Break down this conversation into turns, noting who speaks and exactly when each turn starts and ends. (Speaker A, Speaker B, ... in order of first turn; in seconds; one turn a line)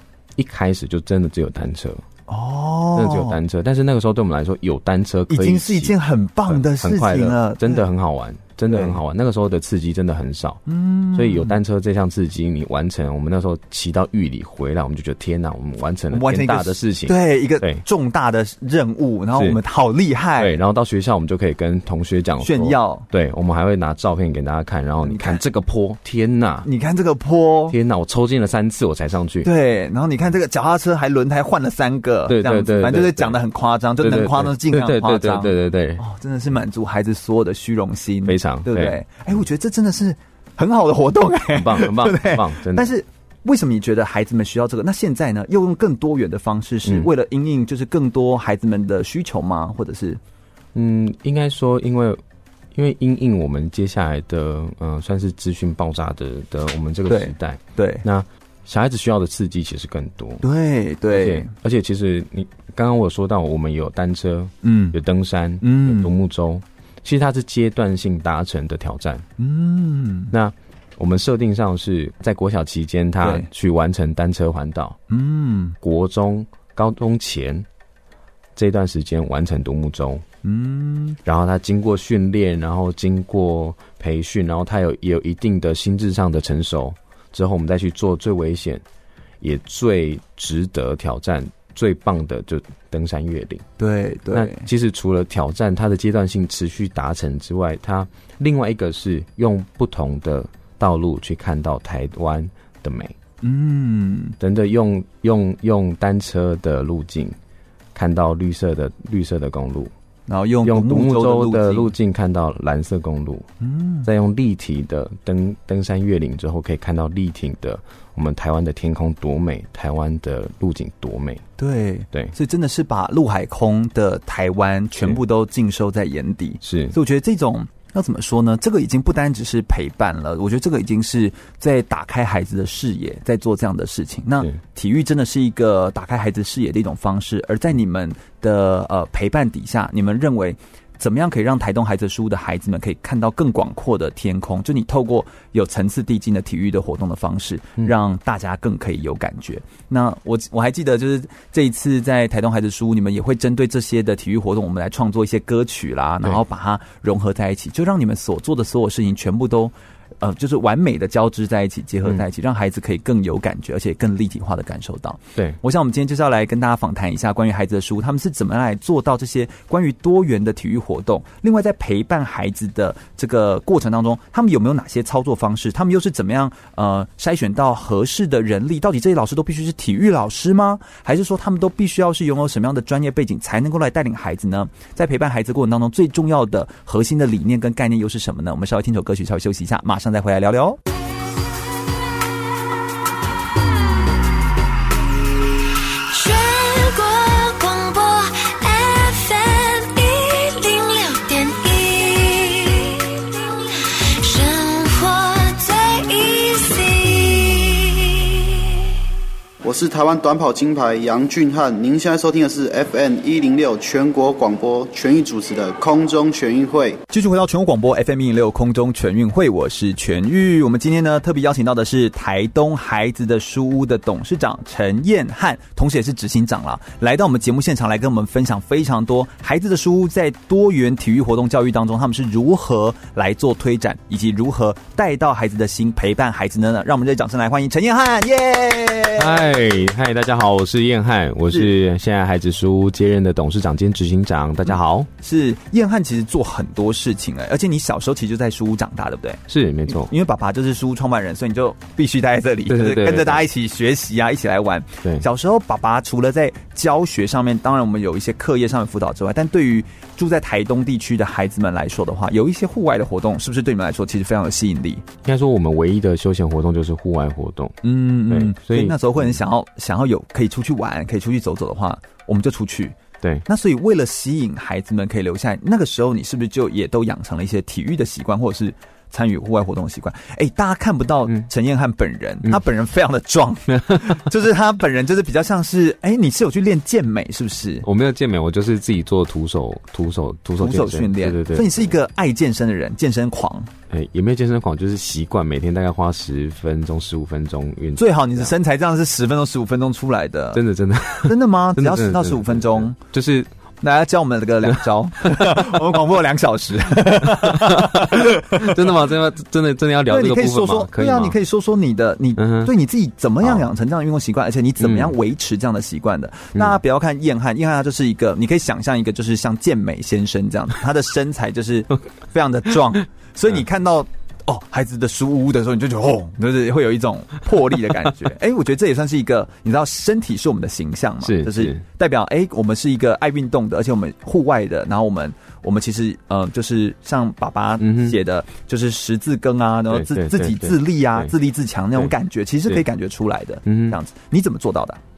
Speaker A: 0.4-2.0
Speaker B: 2.3-3.4
Speaker A: 3.0-5.9
Speaker B: 5.3-7.9
Speaker A: 6.5-10.6
Speaker B: 8.7-9.0
Speaker B: 10.7-11.6
Speaker A: 11.1-17.8
Speaker B: 16.1-20.6
Speaker A: 19.4-19.6
Speaker A: 20.4-26.7
Speaker B: 22.4-23.1
Speaker B: 25.0-25.4
Speaker B: 26.6-27.8
Speaker A: 27.7-29.5
Speaker B: 29.4-50.2
Speaker A: 32.3-33.4
Speaker A: 34.0-36.0
Speaker A: 38.2-39.0
Speaker A: 41.5-42.9
Speaker A: 46.8-47.1
Speaker A: 50.8-52.2
Speaker A: 52.7-60.5
Speaker B: 57.1-58.0
Speaker B: 60.4-61.5
Speaker A: 61.1-69.3
Speaker B: 64.6-65.0
Speaker B: 65.6-66.2
Speaker B: 69.4-70.3
Speaker A: 70.3-75.0
Speaker B: 73.2-73.5
Speaker B: 75.1-75.8
Speaker A: 75.8-77.7
Speaker A: 78.6-80.2
Speaker B: 80.4-81.2
Speaker A: 81.2-88.8
Speaker A: 89.4-93.7
Speaker B: 93.8-94.7
Speaker A: 94.3-103.2
Speaker B: 103.4-104.3
Speaker A: 104.4-107.4
Speaker A: 108.0-109.9
Speaker B: 110.3-111.9
Speaker A: 110.6-113.5
Speaker B: 113.6-114.1
Speaker A: 114.0-121.4
Speaker B: 121.6-190.8
Speaker A: 126.6-127.0
Speaker C: 196.1-203.2
Speaker C: 204.2-208.5
Speaker D: 209.6-217.0
Speaker B: 217.1-239.5
Speaker A: 239.2-245.1
Speaker B: 244.7-265.0
Speaker A: 249.5-250.1
Speaker A: 252.7-253.4
Speaker A: 265.2-269.4
Speaker B: 267.8-287.9
Speaker A: 283.8-284.2
Speaker A: 287.8-291.9
Speaker B: 290.6-293.7
Speaker A: 293.9-298.5
Speaker B: 298.0-300.6
Speaker A: 300.5-303.5
Speaker B: 301.2-303.0
Speaker B: 303.8-308.8
Speaker A: 304.7-305.8
Speaker A: 307.2-311.4
Speaker B: 310.1-345.0
Speaker A: 312.4-312.7
Speaker A: 314.8-315.1
Speaker A: 331.2-331.8
Speaker A: 337.8-338.2
Speaker A: 339.9-341.3
Speaker A: 343.6-344.0